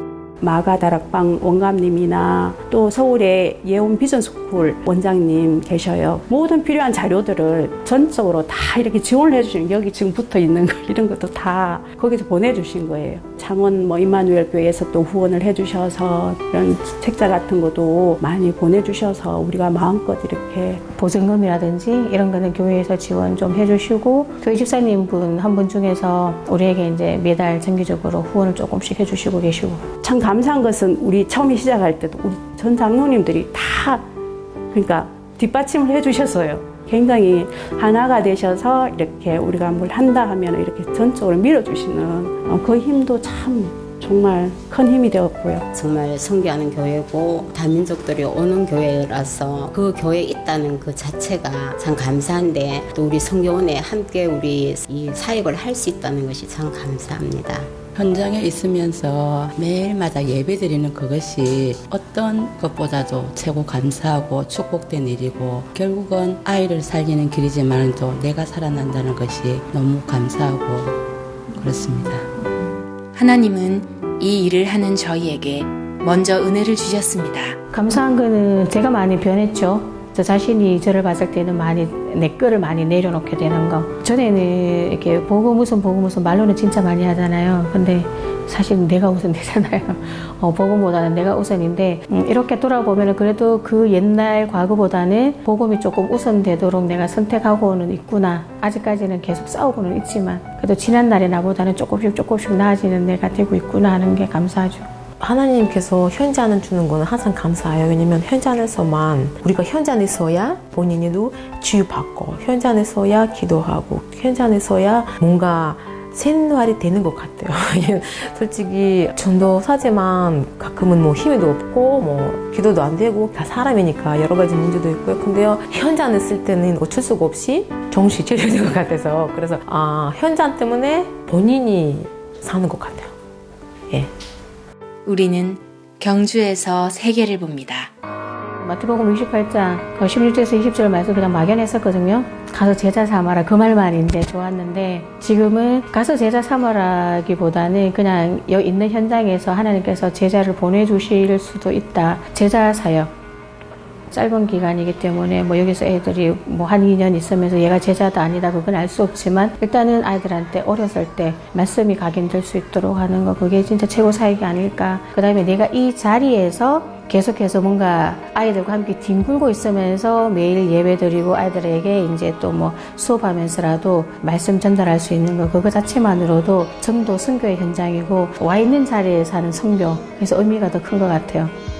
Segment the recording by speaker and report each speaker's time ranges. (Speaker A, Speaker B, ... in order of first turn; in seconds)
Speaker A: 0.4-20.8, 30.0-34.0, 34.7-45.7
Speaker B: 21.0-29.8, 77.7-104.8, 138.6-153.1, 154.1-181.5
Speaker C: 45.7-57.8
Speaker D: 57.9-71.0, 71.5-72.3
Speaker E: 73.1-77.6, 135.1-137.9
Speaker F: 105.2-133.1